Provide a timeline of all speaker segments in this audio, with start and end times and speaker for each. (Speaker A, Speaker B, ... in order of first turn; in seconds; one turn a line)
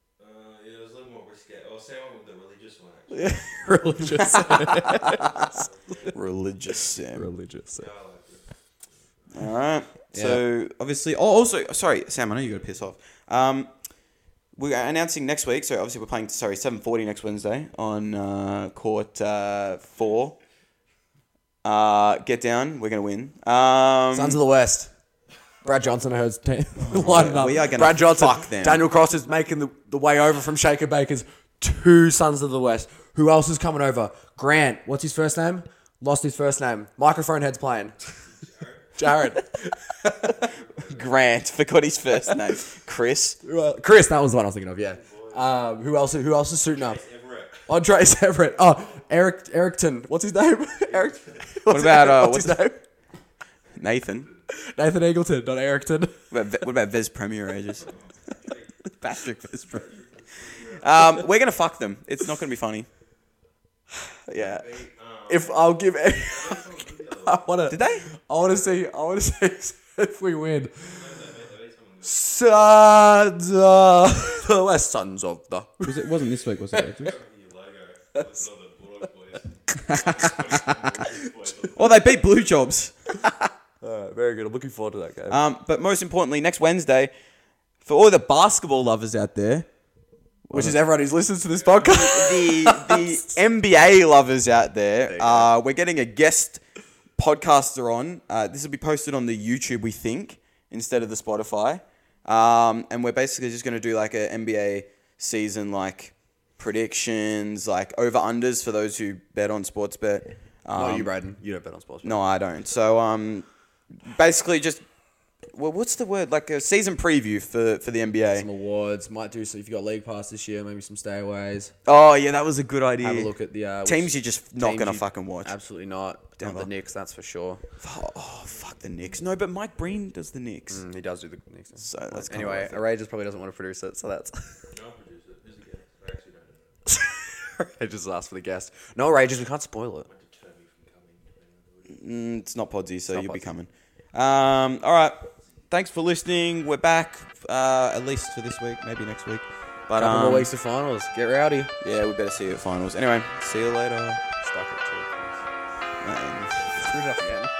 Speaker A: 0.2-4.2
Speaker B: 3.1-5.6
Speaker C: 4.2-5.5
Speaker A: 5.1-6.2
Speaker C: 6.1-7.3
Speaker B: 7.1-7.9
Speaker A: 7.8-8.5
Speaker C: 9.3-13.7
Speaker B: 10.1-10.4
Speaker C: 14.5-20.4
Speaker C: 21.6-24.4
Speaker B: 24.1-24.9
Speaker B: 25.6-38.2
Speaker C: 26.8-28.8
Speaker A: 38.2-38.9
Speaker B: 39.0-40.4
Speaker A: 40.3-41.2
Speaker C: 40.9-43.4
Speaker B: 43.4-47.0
Speaker A: 45.0-45.4
Speaker A: 46.6-47.6
Speaker B: 47.6-52.8
Speaker A: 50.9-51.4
Speaker C: 51.7-52.6
Speaker C: 53.7-54.3
Speaker B: 54.5-56.3
Speaker C: 56.3-57.9
Speaker A: 57.8-58.9
Speaker C: 59.0-62.9
Speaker A: 59.7-61.1
Speaker B: 64.2-71.0
Speaker A: 64.3-67.4
Speaker C: 67.7-68.1
Speaker A: 70.8-72.2
Speaker B: 72.0-76.2
Speaker C: 75.8-77.2
Speaker A: 77.0-81.9
Speaker B: 78.1-78.4
Speaker B: 79.9-81.0
Speaker C: 81.7-83.0
Speaker B: 83.2-85.4
Speaker C: 85.3-87.1
Speaker C: 87.8-89.7
Speaker C: 90.5-90.8
Speaker B: 90.5-93.3
Speaker C: 91.8-96.6
Speaker B: 95.1-95.5
Speaker C: 97.2-111.1
Speaker B: 110.7-112.2
Speaker C: 112.0-114.8
Speaker C: 115.5-118.5
Speaker B: 118.3-121.7
Speaker C: 121.8-123.3
Speaker B: 123.0-127.6
Speaker C: 123.8-125.5
Speaker C: 126.4-126.7
Speaker C: 127.8-130.8
Speaker B: 130.7-134.7
Speaker C: 131.8-132.8
Speaker A: 134.7-136.8
Speaker B: 136.8-140.1
Speaker A: 140.1-142.0
Speaker C: 141.9-150.5
Speaker B: 143.1-143.5
Speaker B: 149.9-151.7
Speaker C: 151.8-154.2
Speaker B: 154.3-155.4
Speaker C: 156.0-156.8
Speaker B: 156.7-157.5